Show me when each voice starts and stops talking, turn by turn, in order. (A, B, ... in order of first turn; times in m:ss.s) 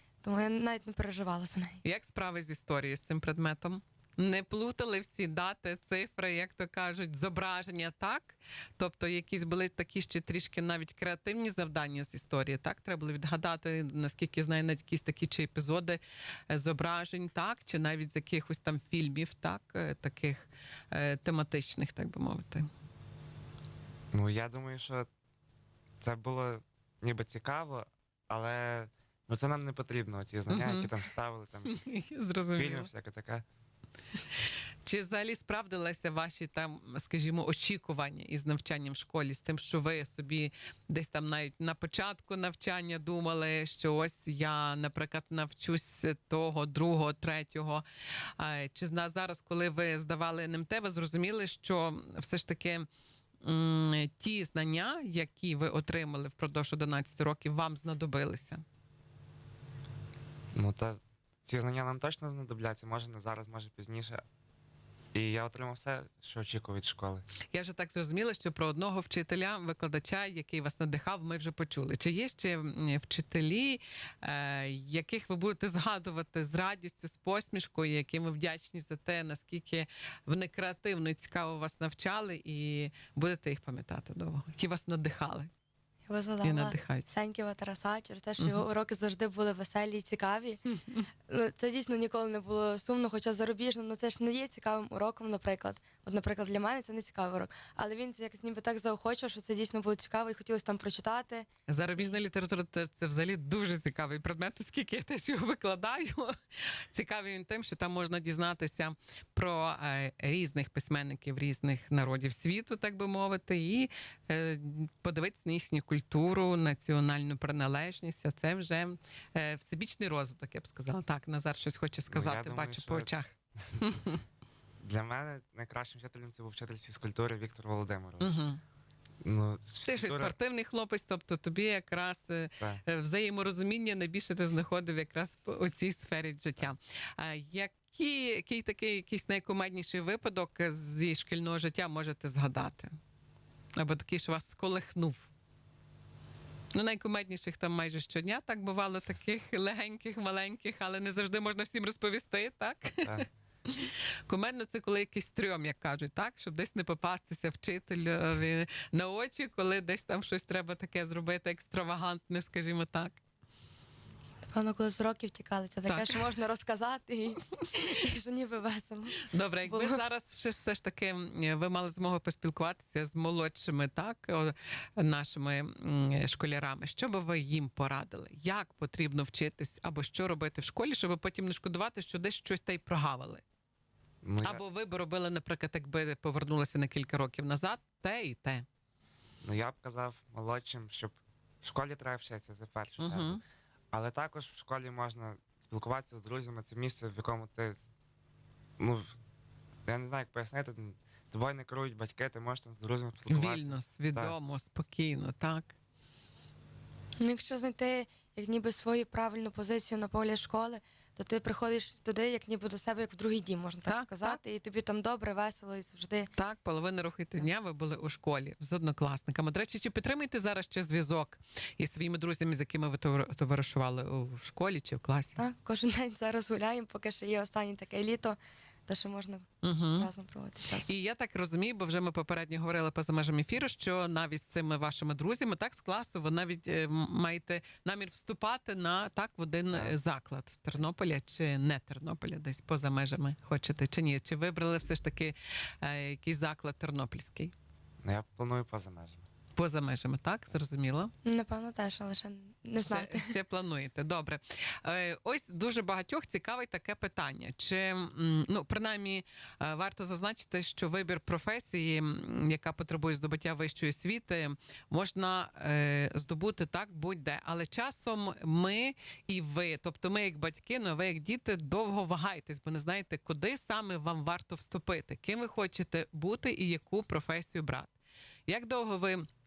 0:00.2-0:01.8 A
0:01.8-0:22.7 B
0:24.1-0:25.1 C
0:26.0-0:31.8 C
0:30.5-0:30.9 B
0:31.7-0:32.9 B
0:32.6-0:33.4 C
0:34.8-0:52.9 B
0:53.4-0:58.6 B
1:00.5-1:04.2 C
1:05.1-1:07.2 C
1:07.5-1:25.5 B
1:26.1-1:30.6 A
1:26.4-1:27.1 B
1:28.4-1:28.7 B
1:30.7-1:31.1 B
1:31.3-1:41.5 A
1:41.7-2:04.2 B
2:02.1-2:03.9 C
2:04.8-2:08.4 C
2:08.2-2:08.6 B
2:09.2-2:10.4 C
2:09.8-2:22.9 B
2:23.8-2:25.3 B
2:26.7-2:43.2 B
2:44.5-2:50.0 A
2:45.9-2:46.2 B
2:49.3-3:03.4 B
3:04.2-3:04.6 C
3:04.4-3:08.7 B
3:09.4-3:13.4 C
3:13.0-3:13.4 B
3:13.9-3:17.9 C
3:18.8-3:19.2 C
3:19.9-3:24.4 C
3:23.3-3:25.7 B
3:27.2-3:36.3 A
3:33.8-3:34.4 B
3:36.4-3:45.4 B
3:45.4-3:50.9 A
3:49.6-3:50.1 B
3:50.8-4:07.5 B
3:59.7-4:00.0 C
4:08.0-4:09.2 C
4:09.6-4:11.1 B
4:11.2-4:13.4 A
4:12.8-4:37.9 B
4:38.5-4:39.2 B